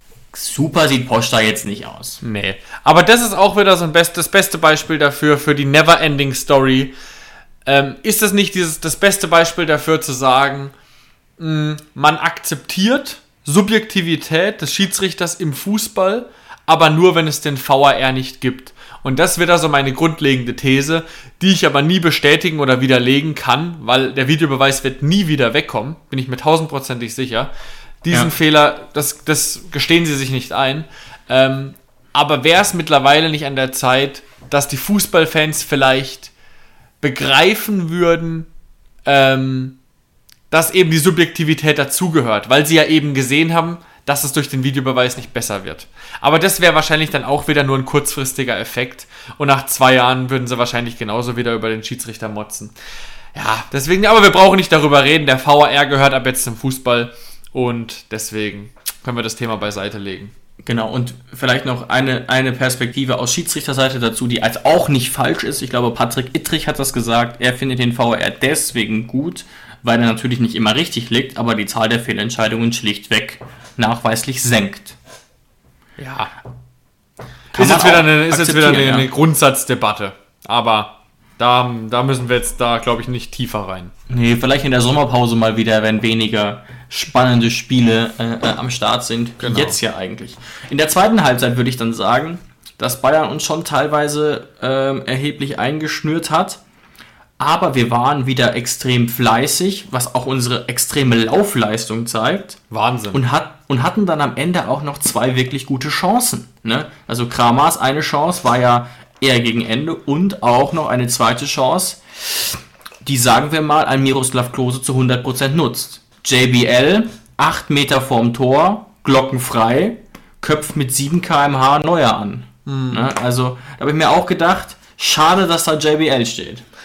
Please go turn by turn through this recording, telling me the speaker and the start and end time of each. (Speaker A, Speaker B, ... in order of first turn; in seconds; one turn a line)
Speaker A: 0.3-2.2
Speaker B: 2.2-6.9
Speaker B: 7.6-10.7
Speaker B: 11.4-27.5
Speaker B: 28.0-36.3
Speaker B: 37.0-38.5
Speaker B: 39.0-39.8
Speaker B: 40.5-52.7
Speaker B: 53.3-60.3
Speaker A: 60.6-75.0
Speaker B: 76.0-76.3
Speaker A: 77.5-79.1
Speaker B: 77.5-83.9
Speaker A: 84.1-96.6
Speaker B: 89.4-89.8
Speaker A: 97.4-102.6
Speaker B: 102.7-103.2
Speaker A: 103.1-126.6
Speaker B: 122.7-123.1